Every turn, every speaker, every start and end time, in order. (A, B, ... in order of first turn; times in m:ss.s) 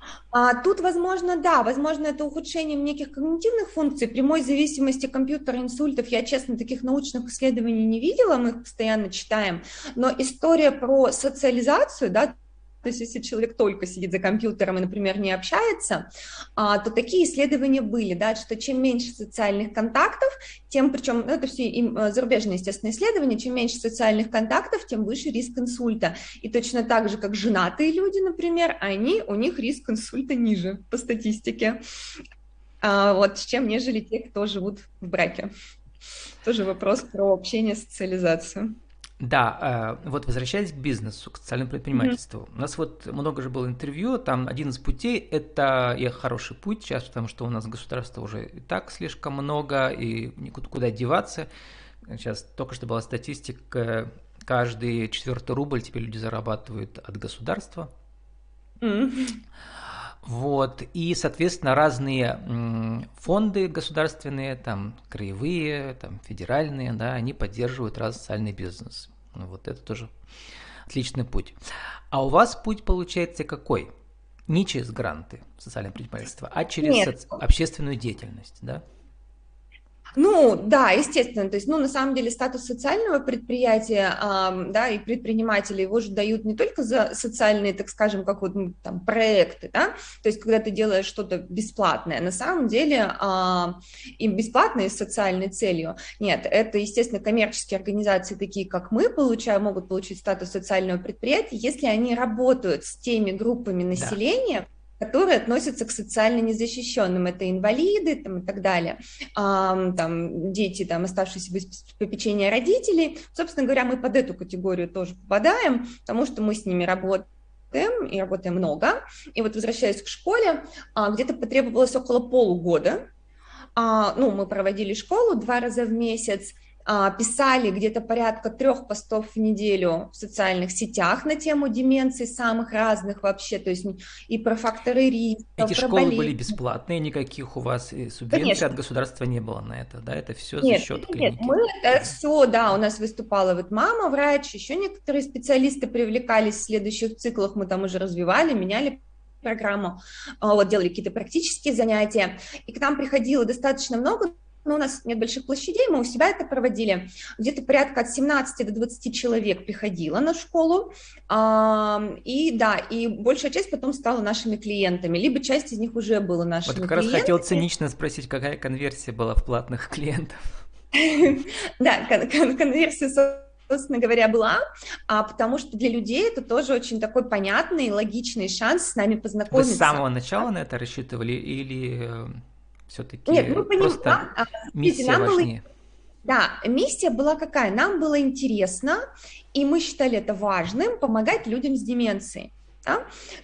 0:00.3-0:31.8 A
0:32.8-0:35.5 A
0:36.4-0:38.7 A
0:39.2-0:51.5 B
0:52.1-0:57.9 B
0:58.8-0:59.4 A
1:00.2-1:10.1 B
1:10.9-1:11.6 B
1:12.1-1:13.9 B
1:14.5-1:18.8 B
1:16.8-1:17.4 A
1:20.2-2:03.0 A
1:43.9-1:44.2 B
2:03.8-2:16.6 A
2:15.6-2:22.1 B
2:18.3-2:18.7 A
2:20.6-2:47.7 A
2:46.7-2:50.4 B
2:51.0-3:00.5 A
2:59.5-3:05.6 B
3:03.3-3:05.5 A
3:06.2-3:09.0 A
3:09.5-3:13.0 A